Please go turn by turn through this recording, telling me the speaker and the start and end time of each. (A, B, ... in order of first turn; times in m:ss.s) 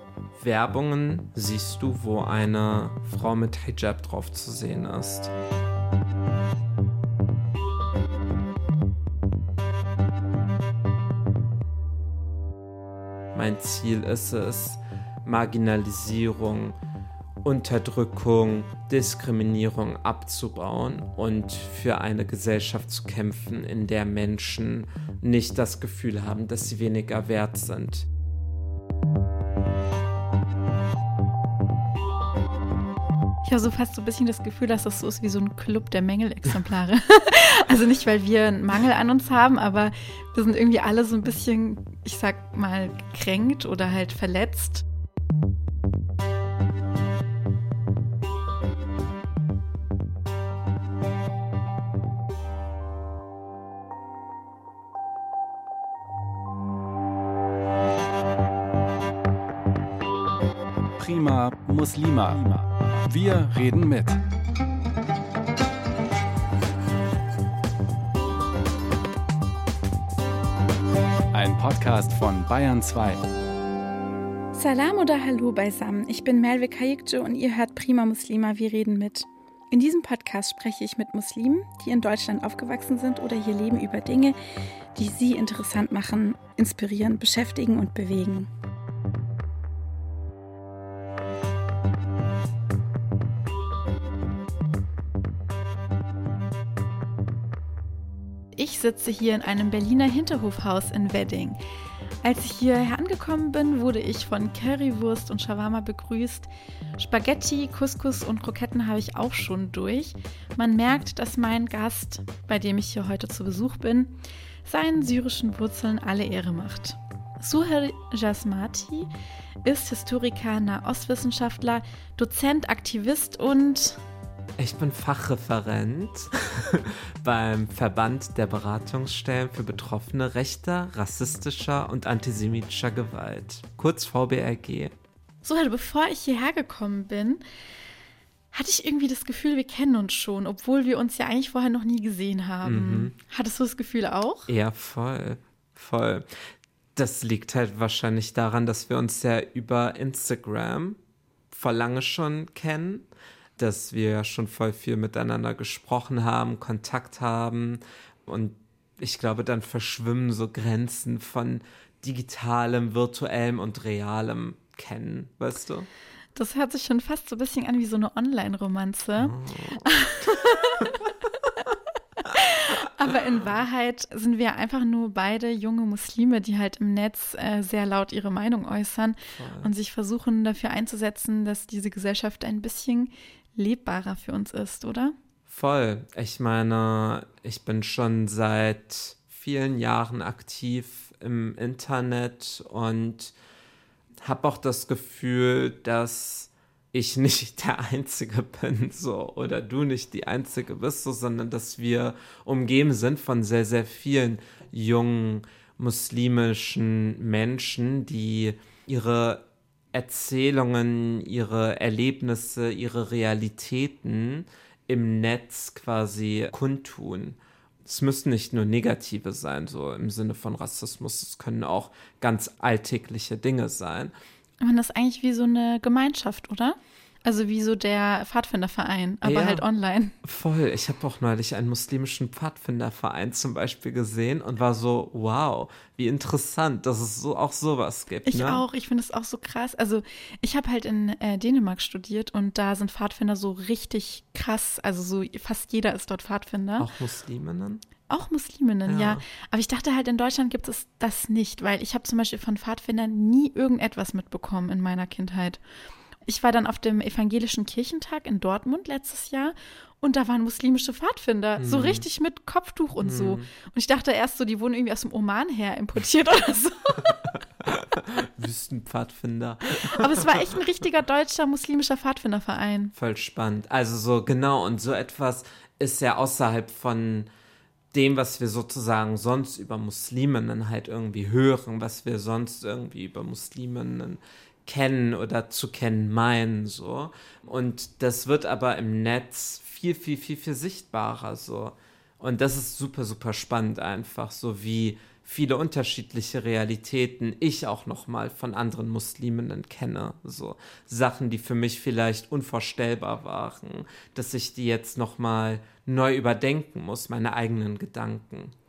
0:00.4-0:05.3 A
0:13.3-0:16.8 A
0:17.4-0:28.1 A
0:33.4-0:44.8 B
1:01.0-1:04.2 C
1:11.3-1:13.2 C
1:14.5-1:24.4 B
1:25.0-1:28.5 B
1:38.6-1:41.6 B
1:42.2-1:59.1 B
1:59.6-2:04.0 B
2:04.6-2:14.9 A
2:15.4-2:17.4 B
2:18.5-2:24.5 B
2:22.6-2:23.1 A
2:24.5-2:26.4 A
2:27.0-2:31.0 A
2:31.5-2:33.1 A
2:33.6-2:45.9 A
2:46.4-2:51.1 B
2:49.2-2:51.0 A
2:52.2-3:05.2 B
2:59.4-2:59.7 A
3:05.5-3:13.3 A
3:14.2-3:44.1 A
3:44.6-3:50.2 B
3:49.2-3:49.6 A
3:50.2-3:58.6 A
3:58.3-4:06.9 B
4:06.8-4:07.8 A
4:08.1-4:15.6 B
4:08.9-4:09.2 A
4:16.3-4:27.2 B
4:21.6-4:22.1 A
4:23.0-4:23.5 A
4:27.6-4:30.5 A
4:29.7-4:32.9 B
4:33.0-4:37.3 A
4:37.9-5:08.5 A